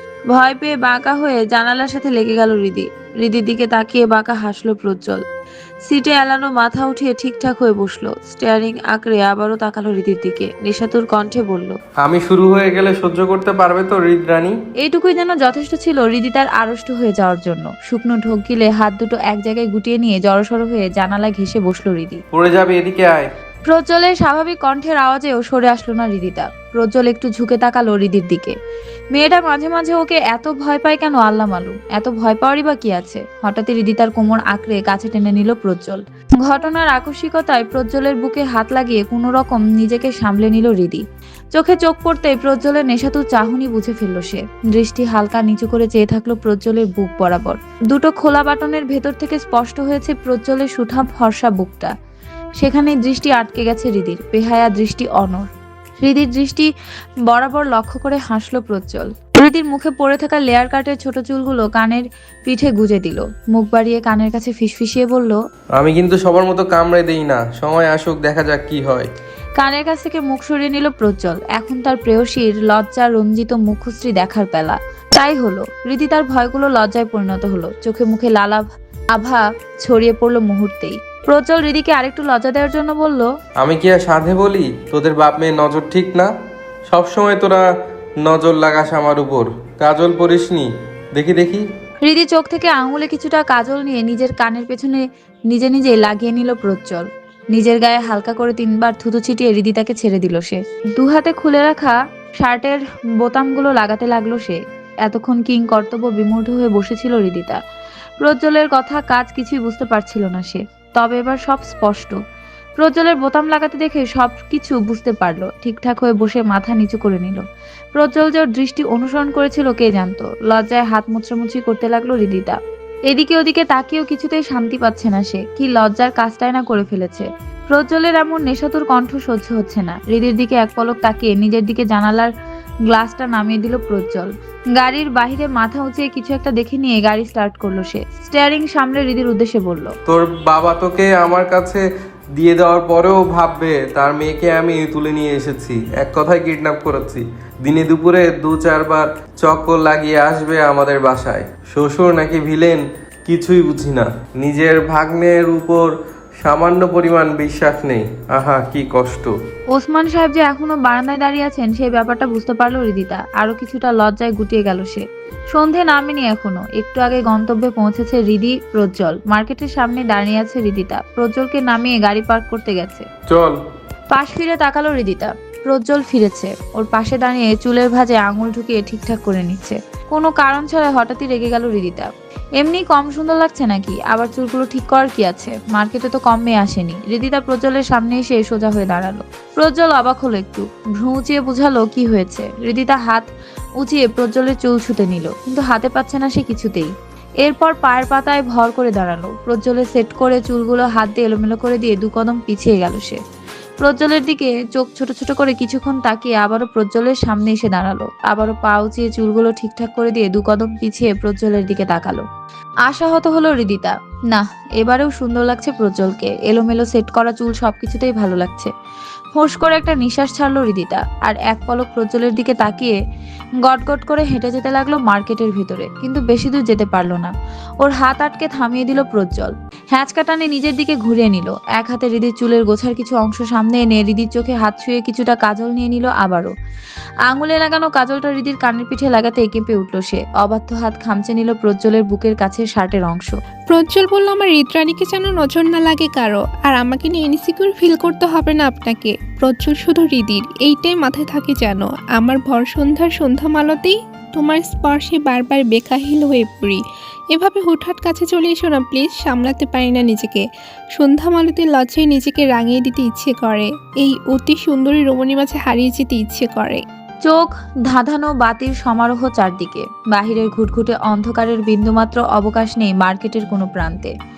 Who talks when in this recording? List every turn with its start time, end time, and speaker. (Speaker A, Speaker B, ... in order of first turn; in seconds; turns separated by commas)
Speaker A: 0.3-5.2, Speaker A: 5.9-11.8, Speaker B: 12.0-14.6, Speaker A: 14.8-22.2, Speaker B: 22.3-23.3, Speaker A: 23.6-28.5, Speaker A: 29.1-41.0, Speaker A: 41.5-51.9, Speaker A: 52.6-55.5, Speaker A: 56.0-56.7, Speaker A: 57.3-65.4, Speaker B: 65.8-69.1, Speaker A: 69.6-83.3, Speaker B: 83.6-86.3, Speaker B: 86.9-87.6, Speaker B: 88.2-91.6, Speaker A: 92.0-107.6, Speaker A: 108.2-112.2, Speaker A: 112.8-117.4, Speaker A: 117.9-122.6, Speaker A: 123.1-132.3, Speaker A: 132.9-139.9, Speaker B: 140.1-141.8, Speaker B: 142.3-155.9, Speaker B: 156.4-159.3, Speaker A: 159.7-173.1, Speaker B: 173.3-173.6, Speaker A: 174.1-193.3, Speaker A: 193.8-196.9, Speaker A: 197.4-203.2, Speaker A: 203.8-212.2, Speaker A: 212.8-218.7, Speaker A: 219.3-222.9, Speaker A: 223.6-236.5, Speaker A: 237.2-243.3, Speaker C: 243.7-256.8, Speaker C: 257.3-266.8, Speaker A: 267.2-274.1